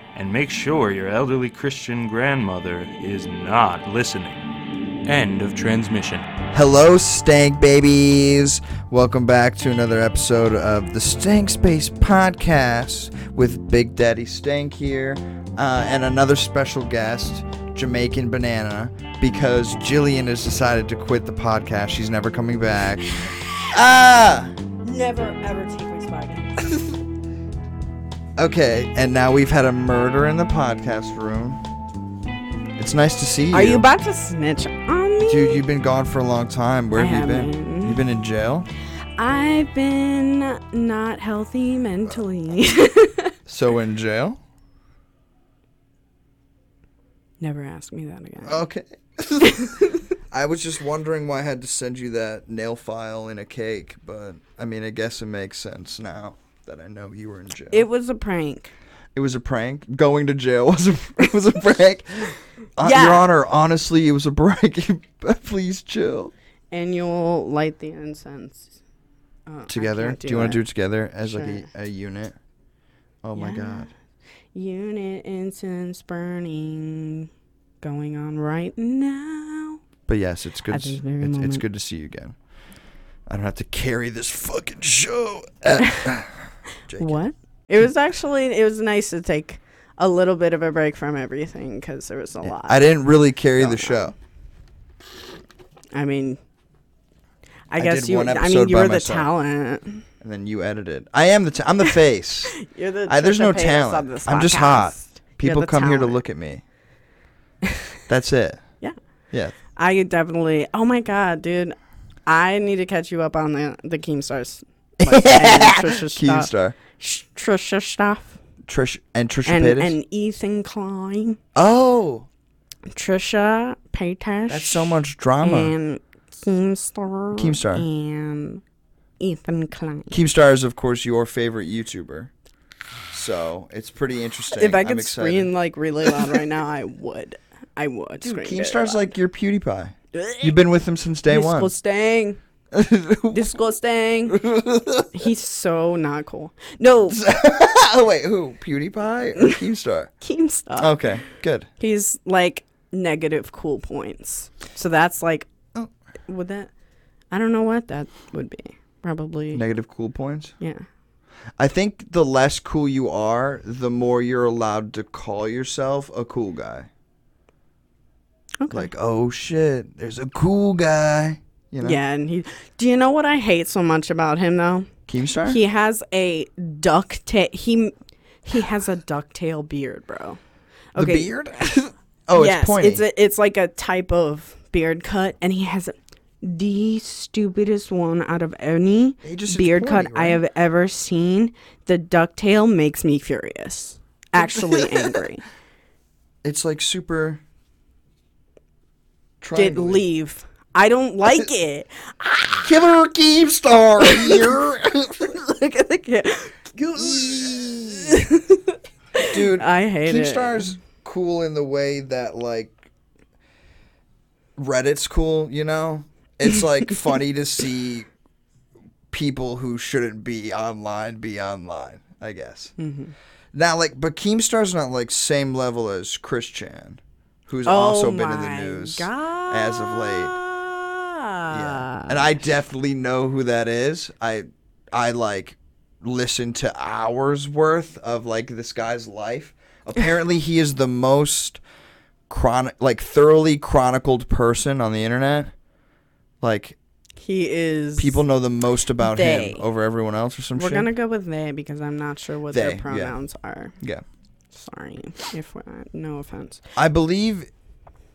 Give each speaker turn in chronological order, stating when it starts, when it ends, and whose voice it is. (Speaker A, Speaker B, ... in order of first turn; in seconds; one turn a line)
Speaker A: 0.1-4.4
Speaker A: 5.0-6.2
Speaker B: 6.5-24.6
Speaker C: 24.8-26.7
Speaker B: 28.4-31.6
Speaker B: 32.8-33.9
Speaker C: 33.5-35.6
Speaker B: 35.3-38.7
Speaker C: 36.9-38.0
Speaker C: 39.2-43.3
Speaker B: 43.5-44.4
Speaker C: 47.4-48.6
Speaker B: 48.4-49.7
Speaker C: 49.4-49.9
Speaker B: 50.3-57.8
Speaker C: 57.7-58.7
Speaker B: 59.1-66.3
Speaker C: 62.8-63.2
Speaker C: 66.7-68.8
Speaker C: 69.5-70.6
Speaker B: 69.7-72.3
Speaker C: 71.2-71.7
Speaker B: 73.2-73.9
Speaker C: 73.3-73.9
Speaker C: 74.5-77.3
Speaker C: 77.8-79.8
Speaker B: 80.1-82.3
Speaker C: 80.7-81.6
Speaker B: 83.3-87.2
Speaker C: 87.0-92.8
Speaker B: 92.4-94.1
Speaker C: 93.6-94.0
Speaker C: 95.9-96.4
Speaker C: 97.7-100.0
Speaker B: 97.8-99.3
Speaker B: 100.2-106.6
Speaker C: 102.6-106.2
Speaker B: 108.1-108.8
Speaker C: 109.5-118.4
Speaker B: 115.0-116.8
Speaker B: 118.7-120.0
Speaker C: 119.5-121.4
Speaker B: 121.5-122.3
Speaker C: 122.9-128.6
Speaker B: 124.5-125.7
Speaker B: 127.3-127.8
Speaker C: 129.2-130.2
Speaker B: 130.1-132.3
Speaker B: 133.1-135.5
Speaker C: 134.5-139.1
Speaker B: 136.1-136.3
Speaker B: 138.2-141.7
Speaker C: 140.1-140.5
Speaker C: 141.3-142.4
Speaker B: 142.7-143.5
Speaker C: 143.3-144.4
Speaker B: 144.3-145.1
Speaker C: 145.1-147.2
Speaker B: 147.1-150.1
Speaker C: 150.2-151.1
Speaker B: 150.8-151.7
Speaker C: 151.8-155.5
Speaker C: 156.3-156.7
Speaker C: 157.3-159.6
Speaker B: 159.5-160.5
Speaker C: 160.6-160.8
Speaker B: 161.6-166.9
Speaker C: 168.6-168.9
Speaker B: 168.7-172.0
Speaker C: 171.8-174.9
Speaker B: 175.1-175.6
Speaker C: 175.4-180.4
Speaker C: 180.9-181.3
Speaker B: 180.9-183.0
Speaker C: 182.3-195.4
Speaker B: 189.2-190.4
Speaker B: 194.4-195.1
Speaker B: 196.4-197.4
Speaker B: 199.4-200.0
Speaker C: 199.5-202.7
Speaker B: 202.6-205.3
Speaker C: 204.0-204.5
Speaker C: 205.3-210.8
Speaker B: 206.7-208.1
Speaker B: 209.3-212.8
Speaker B: 214.6-218.1
Speaker B: 219.1-222.7
Speaker C: 222.8-223.1
Speaker B: 223.5-230.4
Speaker C: 227.7-232.2
Speaker B: 231.5-241.6
Speaker B: 242.3-245.5
Speaker B: 246.4-246.8
Speaker C: 247.2-248.2
Speaker B: 248.0-250.9
Speaker C: 249.0-249.6
Speaker C: 250.6-253.7
Speaker B: 252.5-253.2
Speaker B: 253.8-254.0
Speaker C: 254.5-256.6
Speaker B: 256.8-257.5